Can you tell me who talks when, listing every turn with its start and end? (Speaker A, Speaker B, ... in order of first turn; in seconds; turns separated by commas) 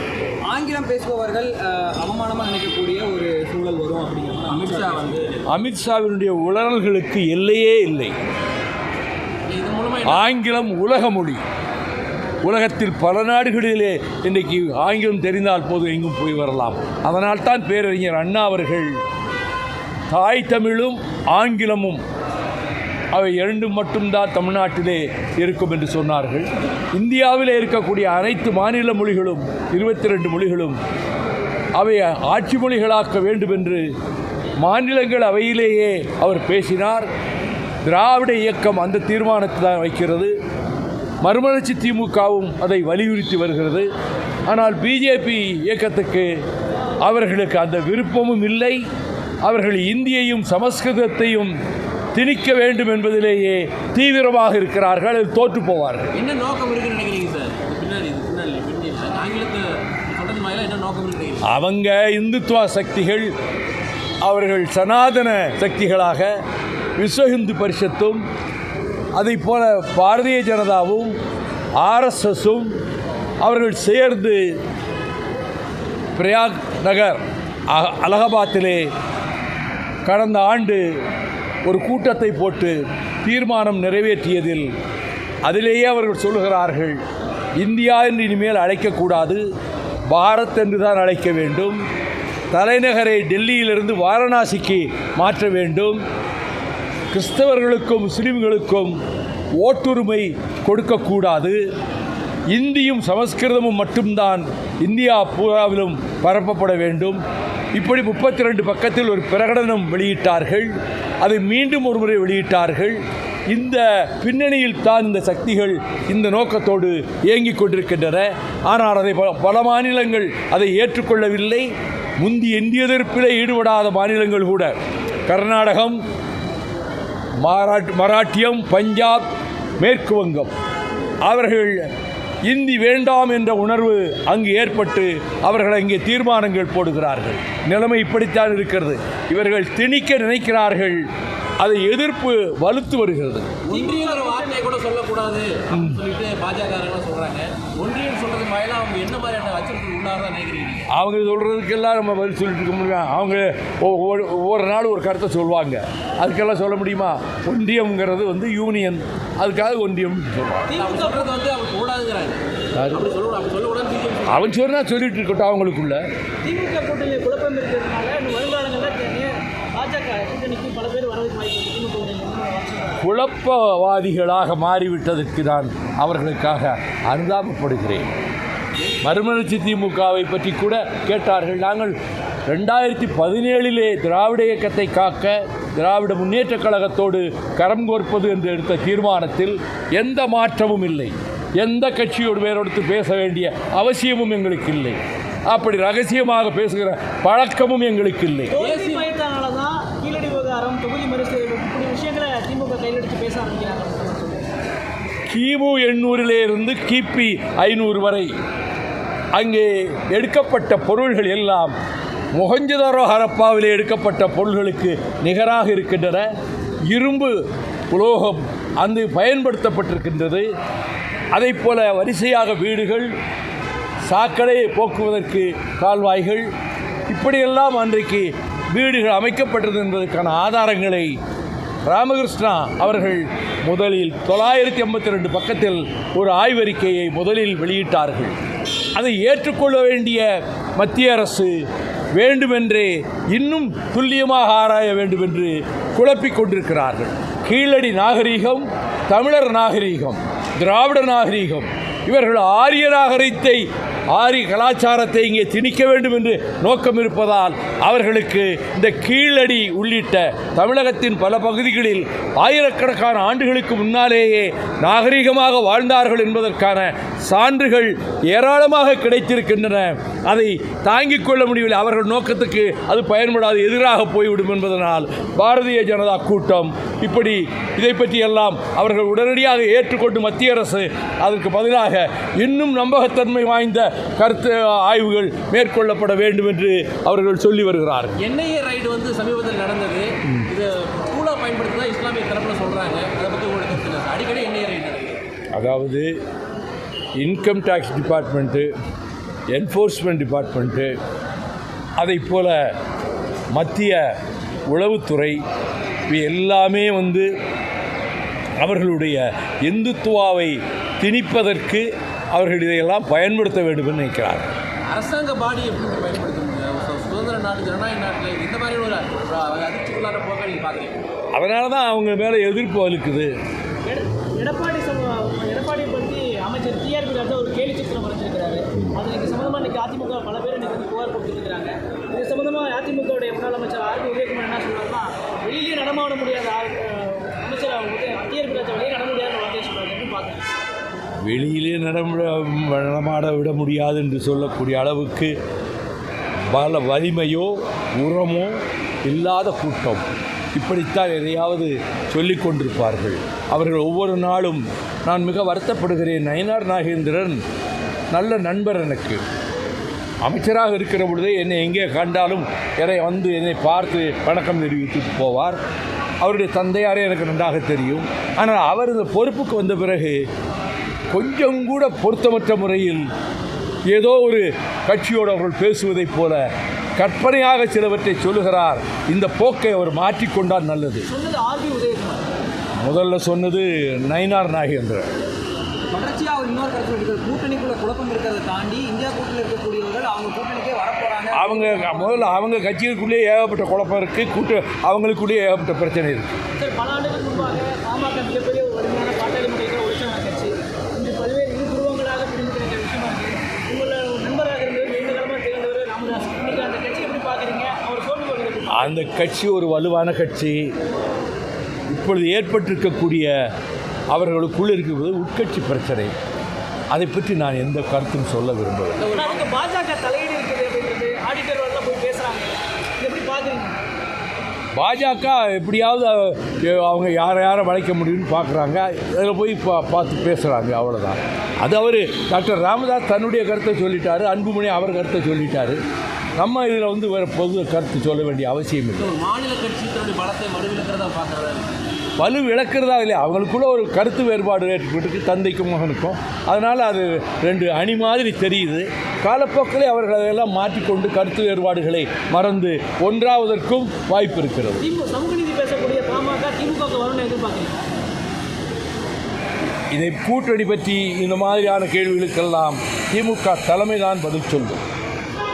Speaker A: 0.5-5.2, Speaker B: 4.5-5.4, Speaker C: 5.5-8.1, Speaker B: 9.5-10.2, Speaker C: 10.1-11.4, Speaker C: 12.4-19.0, Speaker C: 20.1-22.0, Speaker C: 23.1-30.8, Speaker C: 31.8-33.9, Speaker C: 34.6-37.1, Speaker C: 37.8-40.3, Speaker C: 41.2-43.9, Speaker C: 44.5-46.3, Speaker C: 47.0-48.8, Speaker C: 49.4-51.5, Speaker C: 52.1-56.1, Speaker B: 56.1-61.5, Speaker C: 61.4-63.3, Speaker C: 64.2-66.4, Speaker C: 67.0-68.2, Speaker C: 69.1-71.2, Speaker C: 71.8-72.8, Speaker C: 73.4-74.5, Speaker C: 76.2-78.9, Speaker C: 80.0-80.8, Speaker C: 81.7-84.7, Speaker C: 85.4-87.0, Speaker C: 87.6-89.4, Speaker C: 90.1-91.8, Speaker C: 92.5-96.0, Speaker C: 97.1-99.0, Speaker C: 99.6-101.6, Speaker C: 102.5-107.2, Speaker C: 107.7-126.0, Speaker C: 127.4-130.5, Speaker C: 131.2-131.9, Speaker C: 132.4-141.0, Speaker C: 141.6-143.6, Speaker B: 143.6-150.9, Speaker D: 143.7-144.7, Speaker C: 145.7-146.0, Speaker C: 150.9-160.7, Speaker D: 160.7-161.3, Speaker B: 160.8-164.5, Speaker C: 162.8-163.0, Speaker C: 164.3-166.0, Speaker D: 166.4-173.0, Speaker C: 173.0-178.1, Speaker C: 179.0-181.9, Speaker C: 182.5-198.5, Speaker D: 198.5-204.4, Speaker B: 198.5-199.1, Speaker C: 205.3-208.3, Speaker C: 209.3-211.8, Speaker C: 212.3-216.2, Speaker C: 216.9-217.4, Speaker C: 217.9-220.5, Speaker C: 221.3-223.1, Speaker C: 224.1-226.5, Speaker C: 227.1-231.1, Speaker C: 231.9-238.3, Speaker C: 238.9-241.6, Speaker C: 242.1-288.2, Speaker B: 288.2-295.2, Speaker C: 295.5-296.1, Speaker C: 297.2-298.7, Speaker C: 299.5-300.9, Speaker C: 302.0-302.7, Speaker C: 303.6-304.1, Speaker C: 304.7-305.4, Speaker C: 306.1-307.3, Speaker C: 308.6-314.5, Speaker B: 314.9-321.0, Speaker C: 321.3-323.3, Speaker D: 323.9-340.4, Speaker C: 341.2-345.3, Speaker C: 346.5-357.4, Speaker C: 358.1-359.2, Speaker C: 360.2-365.6, Speaker C: 366.2-370.2, Speaker C: 371.1-373.1, Speaker C: 373.9-376.4, Speaker C: 377.0-381.1, Speaker D: 381.1-382.2, Speaker C: 382.8-385.1, Speaker A: 385.9-392.3, Speaker C: 391.3-396.3, Speaker D: 396.6-409.0, Speaker C: 408.7-410.7, Speaker C: 411.9-413.3, Speaker C: 414.1-416.1, Speaker C: 416.9-419.0, Speaker B: 419.0-419.4, Speaker D: 419.1-423.8, Speaker C: 424.8-435.8, Speaker C: 436.4-439.1, Speaker B: 439.0-441.9, Speaker C: 442.2-454.8, Speaker D: 454.8-457.8, Speaker C: 459.9-464.8